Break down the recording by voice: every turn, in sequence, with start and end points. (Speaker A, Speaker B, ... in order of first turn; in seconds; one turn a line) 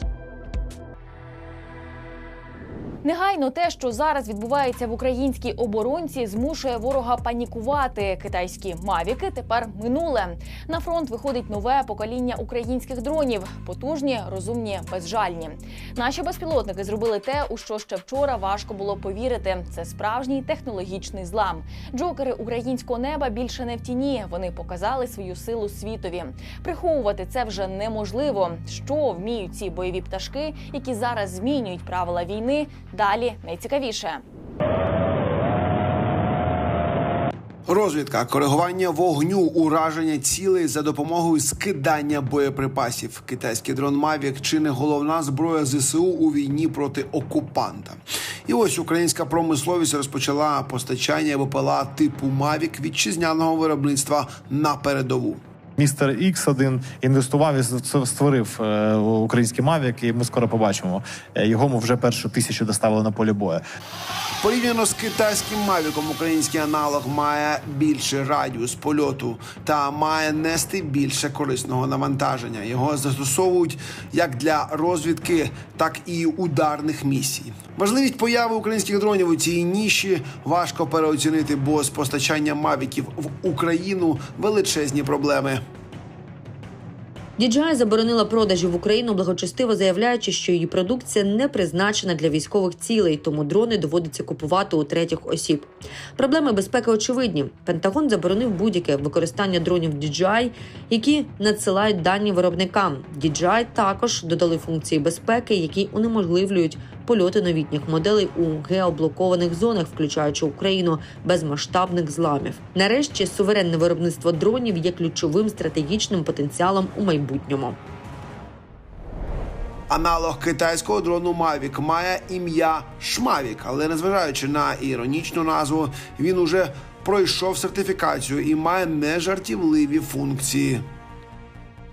Speaker A: 3.0-34.2
Speaker B: 37.7-55.4
Speaker C: 55.8-63.6
Speaker B: 64.4-85.6
Speaker D: 87.4-117.8
Speaker B: 119.9-130.8